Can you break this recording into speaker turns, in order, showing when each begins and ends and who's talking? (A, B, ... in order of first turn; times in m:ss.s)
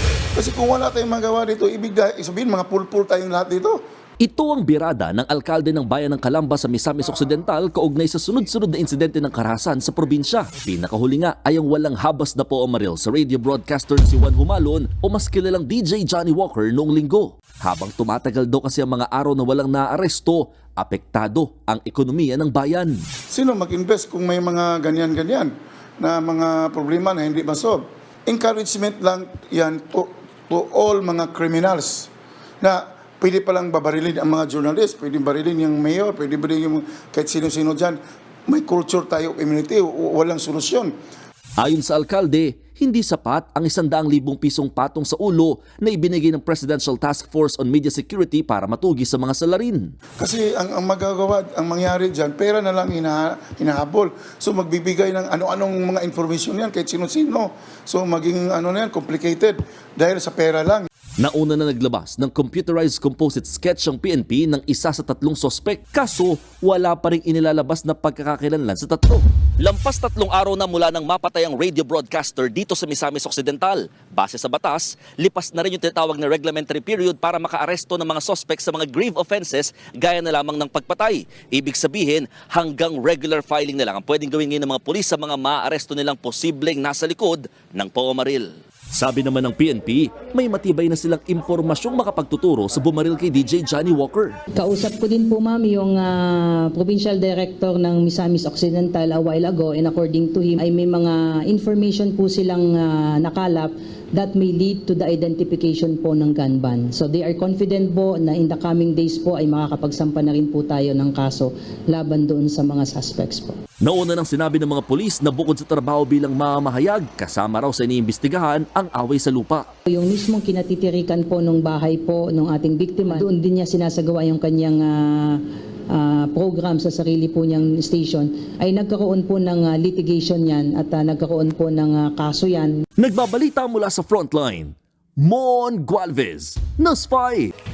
0:00.4-0:03.8 A
0:04.2-0:23.0 B
0:23.3-0:32.1 A
0:32.6-0:40.9 A
0:41.6-0:49.9 B
0:50.2-1:00.9 A
1:01.2-1:34.4 B
1:34.6-1:53.6 C
1:53.8-1:59.6 B
1:59.9-2:12.8 C
2:13.0-2:17.5 B